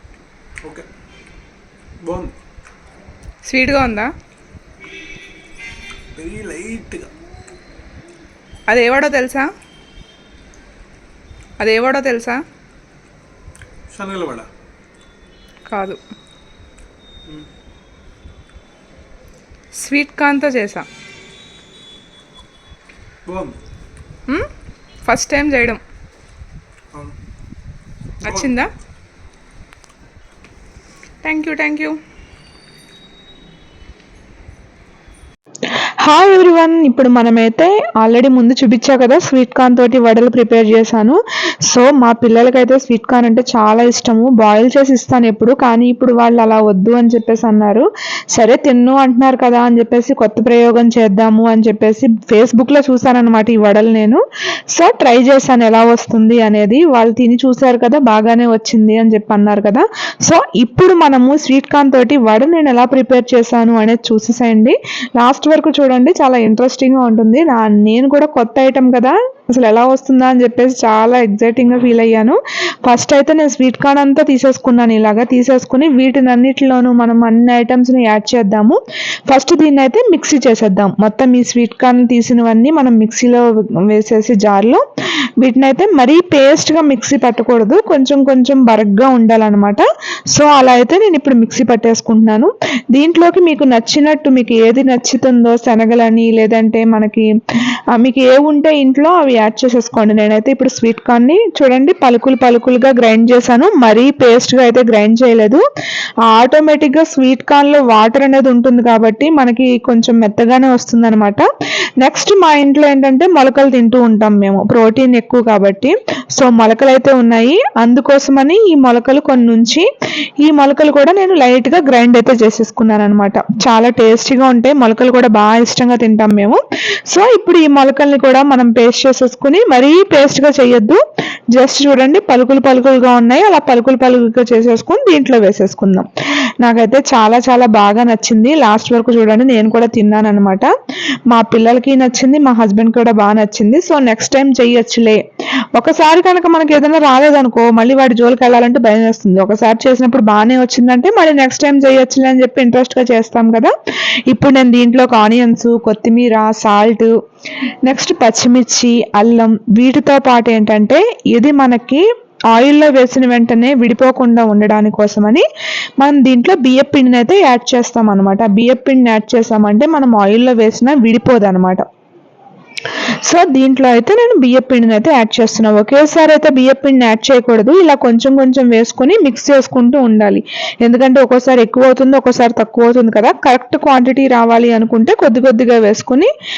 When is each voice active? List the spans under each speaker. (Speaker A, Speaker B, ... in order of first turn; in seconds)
Speaker A: 2.0-2.4, 6.2-7.1, 13.9-14.5, 23.2-23.6
Speaker B: 3.4-4.1, 8.7-9.5, 11.6-12.4, 15.7-16.0, 19.8-20.9, 25.1-25.8, 28.2-28.7, 31.2-31.9
Speaker C: 36.0-54.2, 54.7-84.8, 85.4-97.3, 97.9-105.6, 106.3-111.5, 112.0-119.9, 120.4-126.6, 127.1-131.0, 131.5-136.1, 136.6-140.7, 141.3-145.2, 145.7-153.7, 154.3-157.1, 157.8-165.4, 166.0-171.8, 173.2-186.3